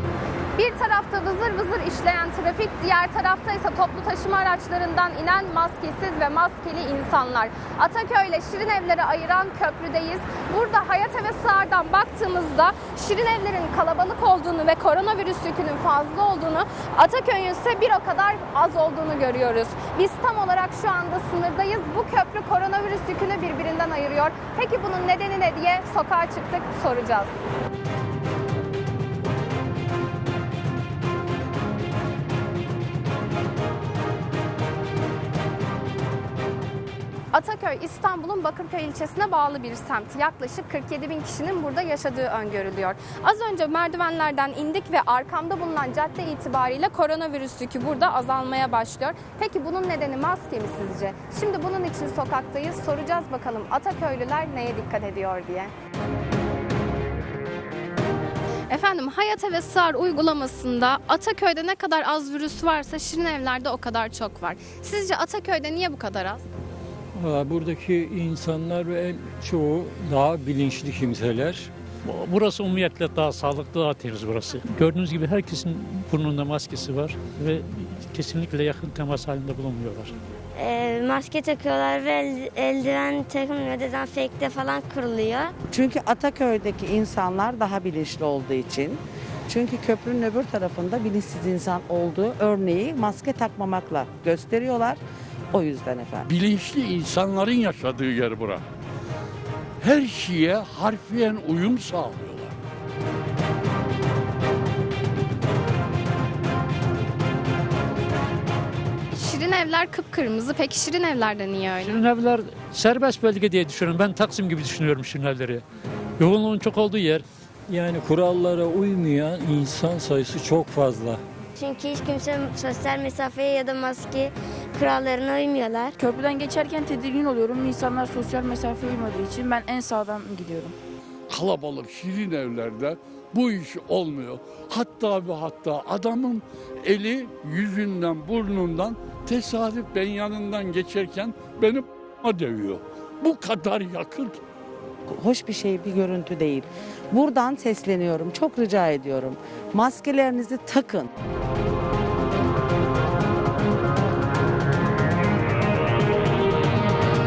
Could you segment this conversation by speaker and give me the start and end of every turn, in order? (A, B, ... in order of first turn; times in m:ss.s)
0:00.6-0:27.3 A
0:37.3-0:55.7 A
0:58.7-1:06.4 A
1:07.2-1:11.7 B
1:12.0-1:20.1 C
1:20.6-1:25.5 D
1:25.7-1:35.0 E
1:35.5-1:36.3 E
1:36.3-1:38.6 F
1:39.8-1:42.5 F
1:49.1-1:52.0 A
1:51.8-1:55.6 C
1:56.2-1:57.2 C
1:57.7-2:01.2 B
2:01.6-2:06.0 D
2:06.0-2:10.8 G
2:11.3-2:24.4 F
2:25.1-2:31.1 E